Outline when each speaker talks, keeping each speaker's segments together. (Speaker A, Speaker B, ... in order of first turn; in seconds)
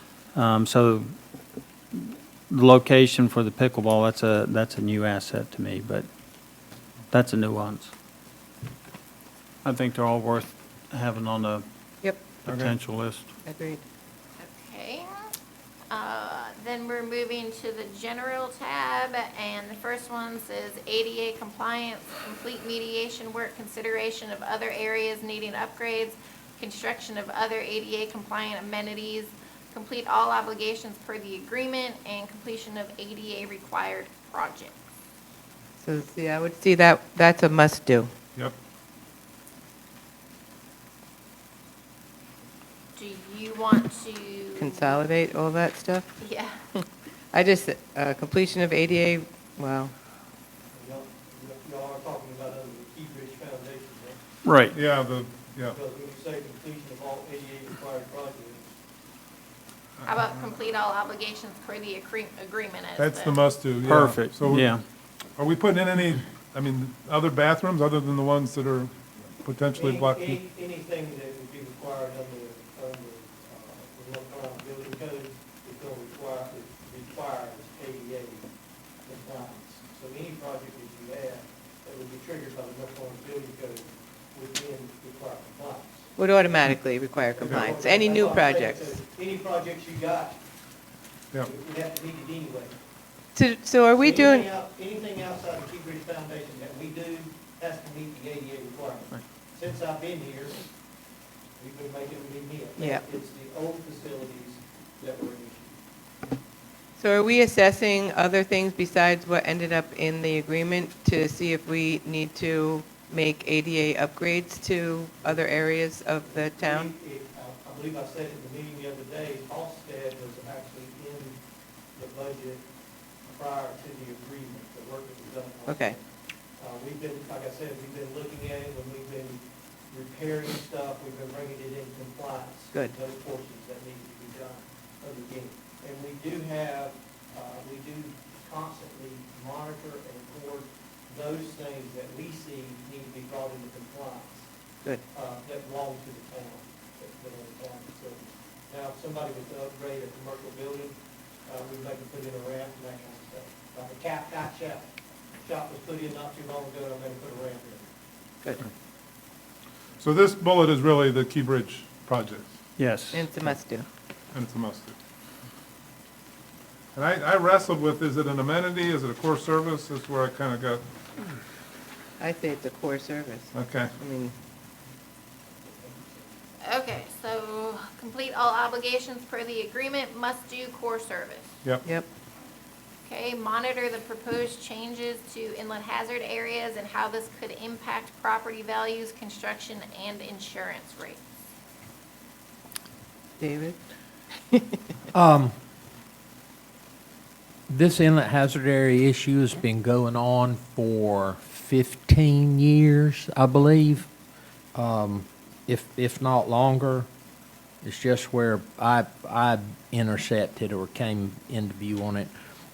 Speaker A: 0.3-1.1, 1.9-6.1, 7.1-7.9, 9.6-11.7, 12.4-13.3, 54.4-54.8, 63.8-64.8, 162.8-163.3
Speaker B: 12.5-12.7, 54.7-55.8, 63.0-64.8, 65.4-70.4, 87.5-87.7, 160.0-162.6, 164.3-164.9, 166.9-170.8, 173.5-173.9
Speaker C: 13.4-13.8, 35.8-38.1, 44.6-46.2, 46.8-49.9, 86.2-89.0, 93.4-94.5, 102.8-103.0, 107.0-116.9, 125.7-126.0, 163.1-163.9, 172.2-174.3, 193.4-193.8, 194.5-194.9
Speaker D: 14.4-15.1, 15.9-34.7, 43.0-45.0, 46.2-46.6, 60.0-63.4, 176.6-181.5, 183.0-191.2
Speaker E: 50.7-54.2, 55.7-58.8, 69.7-78.5, 79.0-90.4, 91.4-92.8, 94.0-100.6, 101.6-105.8, 116.2-121.4, 122.0-122.7, 123.2-144.5, 145.1-157.9
Speaker F: 195.1-195.6, 197.7-204.1, 204.8-207.1, 207.8-212.3